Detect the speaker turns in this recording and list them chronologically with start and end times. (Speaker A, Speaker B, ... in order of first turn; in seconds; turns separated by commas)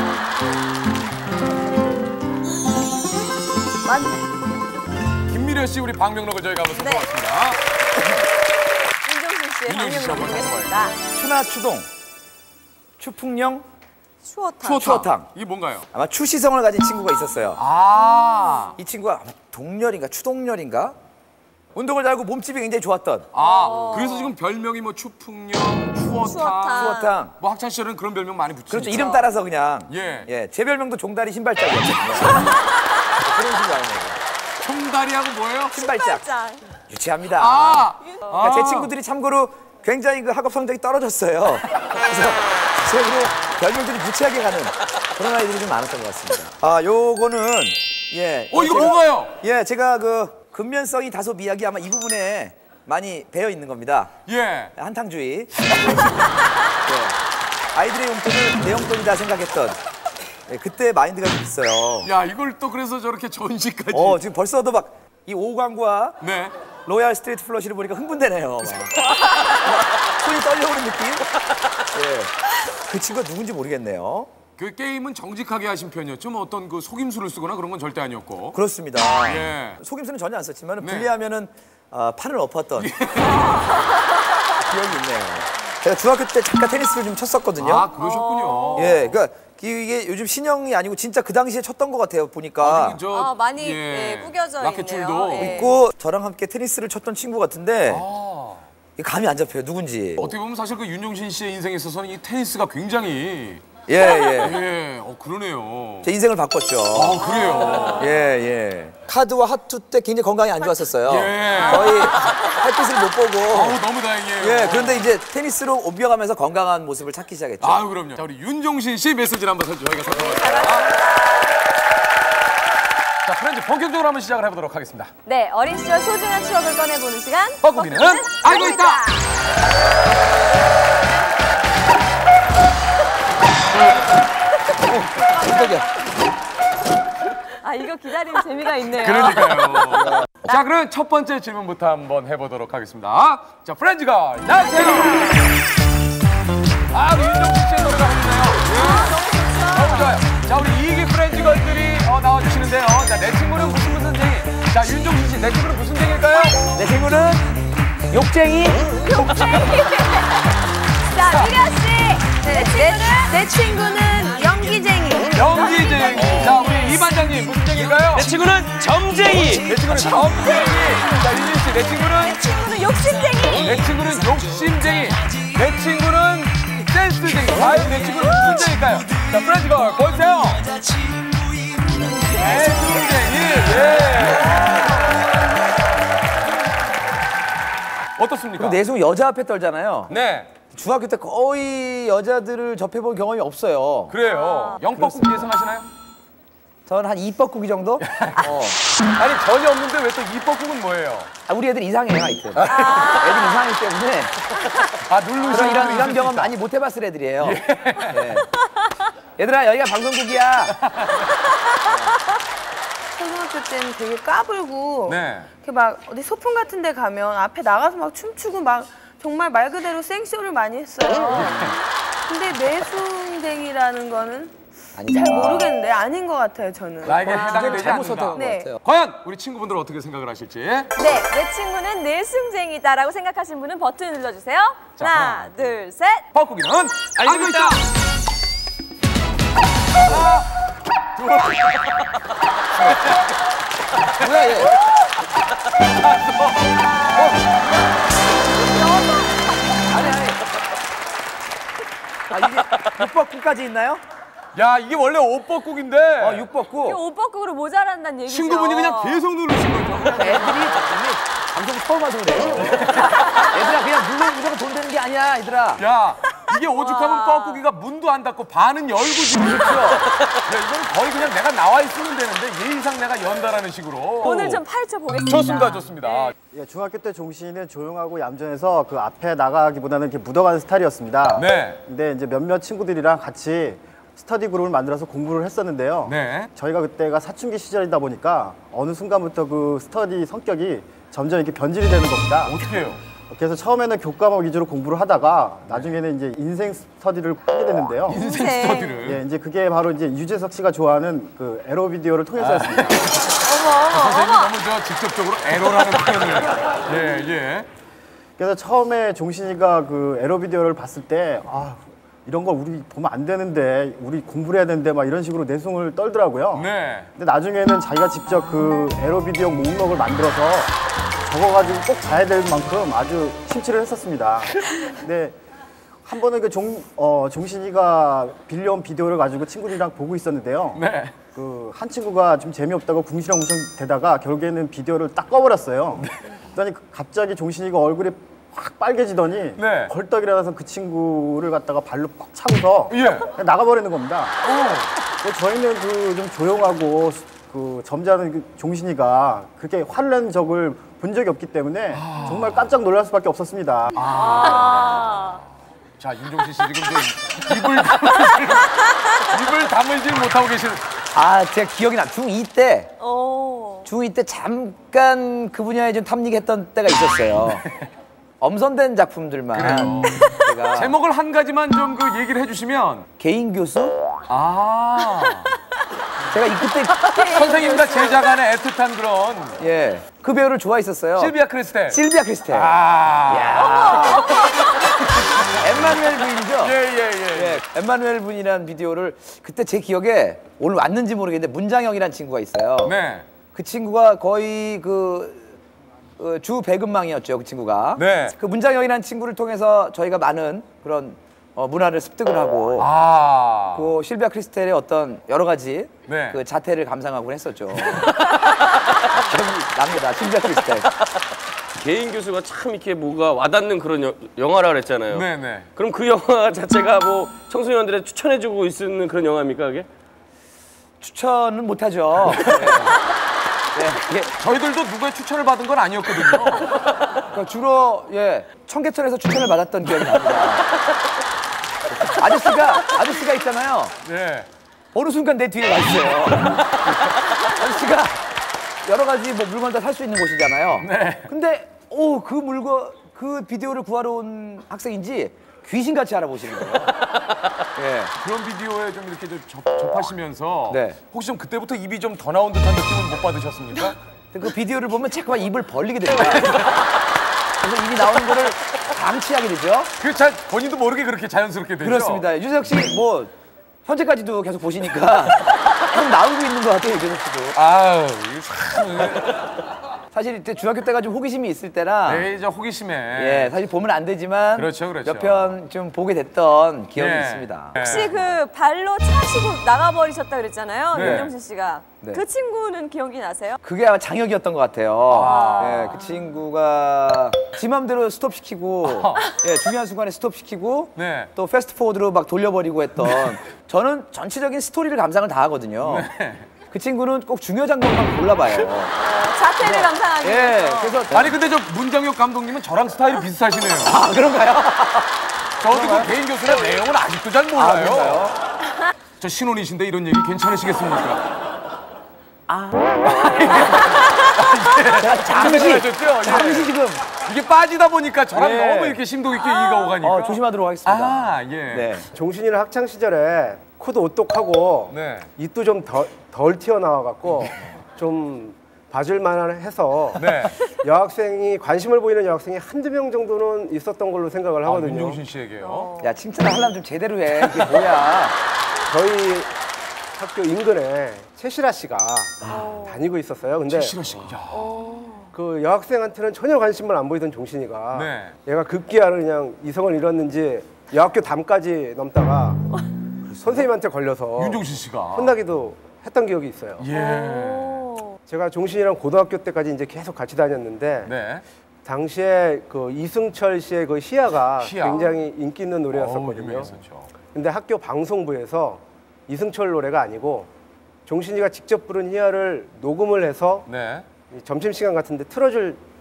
Speaker A: 3.8-4.2, Speaker B: 5.3-7.6, Speaker C: 6.7-7.1, Speaker C: 9.0-11.0, Speaker B: 9.7-10.9, Speaker D: 11.1-11.9, Speaker D: 13.0-13.6, Speaker C: 14.2-15.0, Speaker B: 14.6-15.9, Speaker D: 14.8-15.3, Speaker D: 15.9-17.6, Speaker B: 17.6-18.8, Speaker C: 18.0-18.7, Speaker D: 18.8-20.9, Speaker D: 21.7-23.3, Speaker B: 23.3-29.1, Speaker C: 23.3-24.3, Speaker C: 26.1-27.1, Speaker D: 26.7-27.3, Speaker D: 28.7-32.5, Speaker C: 28.9-29.2, Speaker B: 29.9-30.3, Speaker C: 32.3-32.6, Speaker D: 33.2-34.2, Speaker B: 34.6-35.8, Speaker D: 35.7-36.2, Speaker C: 35.8-36.6, Speaker D: 36.9-54.1, Speaker B: 37.3-38.9, Speaker B: 48.5-49.4, Speaker B: 54.2-54.7, Speaker D: 54.8-56.1, Speaker B: 55.8-56.2, Speaker D: 56.9-57.1, Speaker D: 57.7-59.8, Speaker D: 60.5-62.1, Speaker B: 62.0-64.2, Speaker D: 63.9-66.2, Speaker B: 66.2-66.5, Speaker D: 66.8-69.0, Speaker D: 69.6-71.2, Speaker D: 71.9-72.3, Speaker D: 72.8-74.3, Speaker B: 74.6-78.6, Speaker D: 78.5-82.9, Speaker B: 79.1-79.8, Speaker B: 80.8-81.1, Speaker B: 82.8-83.9, Speaker C: 83.3-83.9, Speaker D: 84.6-87.9, Speaker B: 87.6-89.2, Speaker C: 87.9-89.0, Speaker D: 88.8-93.0, Speaker B: 92.6-95.7, Speaker C: 93.1-95.8, Speaker D: 95.3-98.0, Speaker B: 97.9-98.7, Speaker D: 99.0-100.3, Speaker B: 100.2-103.8, Speaker D: 103.9-104.6, Speaker C: 104.0-104.5, Speaker B: 104.4-106.1, Speaker D: 106.0-113.8, Speaker B: 106.9-108.1, Speaker C: 107.2-108.1, Speaker B: 111.1-112.6, Speaker C: 111.4-112.7, Speaker B: 113.5-115.1, Speaker D: 114.4-117.9, Speaker B: 117.6-120.9, Speaker C: 120.1-121.6, Speaker B: 123.2-125.1, Speaker C: 125.2-129.2, Speaker B: 127.6-129.0, Speaker D: 134.9-135.8, Speaker C: 135.3-135.8, Speaker C: 137.6-140.6, Speaker B: 139.0-145.4, Speaker D: 139.9-140.3, Speaker C: 144.6-145.5, Speaker B: 146.9-156.6, Speaker C: 148.6-150.2, Speaker C: 156.3-156.6, Speaker D: 156.7-157.5, Speaker D: 158.1-159.5, Speaker C: 159.0-164.0, Speaker B: 161.2-161.6, Speaker A: 162.4-166.0, Speaker B: 165.3-168.3, Speaker C: 165.6-167.1, Speaker D: 166.2-166.4, Speaker E: 168.1-169.7, Speaker B: 169.5-172.4, Speaker C: 170.1-171.3, Speaker C: 172.3-173.8, Speaker B: 173.6-180.7, Speaker C: 178.2-178.7, Speaker C: 182.3-185.2, Speaker B: 182.3-185.0, Speaker B: 188.2-188.8, Speaker D: 188.6-194.2, Speaker B: 190.1-190.5, Speaker B: 194.1-195.9, Speaker C: 194.2-194.8, Speaker D: 194.9-195.5, Speaker D: 196.9-198.8, Speaker B: 198.1-198.5, Speaker B: 199.2-201.3, Speaker D: 201.5-204.4, Speaker B: 202.6-203.1, Speaker C: 202.6-203.6, Speaker B: 205.1-206.5, Speaker D: 205.4-208.5, Speaker B: 207.4-208.4, Speaker D: 209.4-210.8, Speaker B: 210.8-211.2, Speaker D: 211.8-212.2, Speaker A: 213.1-221.6, Speaker B: 215.1-215.5, Speaker B: 221.3-221.8, Speaker A: 222.3-227.3, Speaker D: 224.9-225.7, Speaker B: 227.0-230.9, Speaker D: 227.2-228.8, Speaker C: 227.3-227.7, Speaker A: 228.3-228.7, Speaker C: 230.9-236.2, Speaker B: 234.9-235.7, Speaker B: 236.3-237.8, Speaker E: 237.2-237.8, Speaker B: 240.0-240.5, Speaker B: 241.2-241.9, Speaker B: 242.8-243.3, Speaker D: 242.8-243.1, Speaker D: 244.2-244.7, Speaker B: 244.2-244.7, Speaker B: 246.0-247.4, Speaker C: 246.8-247.4, Speaker C: 248.6-250.2, Speaker D: 249.9-250.4, Speaker D: 252.3-254.0, Speaker B: 254.5-256.5, Speaker D: 256.2-257.0, Speaker C: 256.8-259.2, Speaker B: 258.3-260.6, Speaker D: 260.1-265.8, Speaker B: 262.6-263.5, Speaker B: 265.8-274.6, Speaker C: 266.5-267.6, Speaker D: 269.4-270.1, Speaker C: 274.2-276.3, Speaker B: 275.2-276.3, Speaker F: 276.5-292.6, Speaker B: 281.3-281.8, Speaker B: 286.1-286.5, Speaker B: 292.4-293.0, Speaker F: 293.3-298.2, Speaker B: 298.1-299.2, Speaker C: 298.1-299.0, Speaker F: 298.9-303.1, Speaker B: 302.4-307.7, Speaker C: 303.4-304.5, Speaker F: 308.4-320.7, Speaker B: 316.5-317.1, Speaker F: 321.2-325.4, Speaker F: 326.0-344.4, Speaker B: 330.7-331.1, Speaker B: 339.6-339.9, Speaker B: 342.9-343.3, Speaker B: 344.4-344.9, Speaker F: 345.2-353.9, Speaker B: 351.9-352.7, Speaker B: 353.9-355.3, Speaker C: 354.0-355.4, Speaker B: 356.0-361.0, Speaker C: 358.2-358.9, Speaker D: 361.1-362.9, Speaker C: 363.0-363.9, Speaker D: 363.9-367.6, Speaker D: 368.4-370.9, Speaker B: 369.5-373.1, Speaker D: 373.2-374.0, Speaker B: 374.3-375.5, Speaker D: 376.3-377.7, Speaker B: 377.0-379.6, Speaker C: 377.0-378.2, Speaker A: 377.3-378.1, Speaker D: 379.6-381.3, Speaker B: 381.2-384.5, Speaker D: 381.9-382.7, Speaker D: 383.3-384.4, Speaker B: 385.3-385.7, Speaker D: 385.6-386.8, Speaker B: 386.6-387.6, Speaker D: 387.3-392.9, Speaker B: 392.8-393.3, Speaker D: 393.5-395.6, Speaker D: 396.2-402.9, Speaker B: 397.9-398.4, Speaker B: 402.8-403.9, Speaker D: 403.7-408.1, Speaker B: 406.1-406.4, Speaker D: 409.1-410.9, Speaker E: 411.7-419.9, Speaker B: 415.1-415.7, Speaker D: 421.0-423.0, Speaker B: 422.3-422.9, Speaker D: 423.7-424.3, Speaker B: 424.4-426.7, Speaker D: 427.3-430.7, Speaker D: 431.9-433.9, Speaker B: 434.0-434.5, Speaker D: 434.9-438.2, Speaker B: 436.8-437.2, Speaker D: 438.8-447.1, Speaker B: 440.8-441.3, Speaker D: 447.8-448.1, Speaker B: 448.2-454.0, Speaker D: 450.7-451.0, Speaker D: 454.3-456.7, Speaker D: 457.6-459.9, Speaker B: 460.0-462.2, Speaker D: 461.8-463.3, Speaker D: 463.8-467.6, Speaker B: 467.5-469.4, Speaker D: 470.1-472.2, Speaker B: 472.1-473.6, Speaker D: 473.1-478.0, Speaker B: 474.5-475.5, Speaker B: 476.9-478.2, Speaker C: 477.8-483.6, Speaker B: 480.9-481.3, Speaker D: 480.9-481.3, Speaker D: 482.0-482.2, Speaker D: 483.6-496.1, Speaker B: 485.1-486.0, Speaker C: 485.3-486.4, Speaker B: 488.8-489.2, Speaker C: 489.2-489.7, Speaker B: 490.9-491.3, Speaker B: 495.8-496.5, Speaker D: 496.7-498.9, Speaker C: 499.0-501.0, Speaker B: 499.6-499.9, Speaker D: 500.2-501.4, Speaker B: 501.1-504.0, Speaker D: 503.8-505.1, Speaker B: 505.6-508.3, Speaker D: 505.7-506.1, Speaker D: 507.6-508.4, Speaker B: 509.2-511.2, Speaker D: 512.5-513.9, Speaker B: 513.2-522.0, Speaker D: 515.0-517.1, Speaker D: 518.3-519.0, Speaker D: 519.9-522.1, Speaker G: 522.1-535.2, Speaker B: 524.9-525.3, Speaker B: 530.1-530.6, Speaker B: 534.6-535.9, Speaker C: 535.6-536.2, Speaker D: 536.0-538.4, Speaker G: 538.9-539.5, Speaker G: 540.1-544.0, Speaker C: 542.5-543.0, Speaker B: 543.7-544.7, Speaker C: 544.5-545.3, Speaker G: 545.3-552.6, Speaker B: 547.9-548.3, Speaker D: 553.3-553.7, Speaker G: 553.4-556.9, Speaker B: 554.4-555.4, Speaker B: 556.8-557.9, Speaker C: 556.9-558.2, Speaker G: 558.3-561.1, Speaker B: 561.0-561.4, Speaker G: 561.8-566.7, Speaker B: 564.6-565.1, Speaker B: 565.9-567.1, Speaker G: 567.3-570.5, Speaker G: 571.1-573.7, Speaker B: 573.7-574.0, Speaker G: 574.3-575.8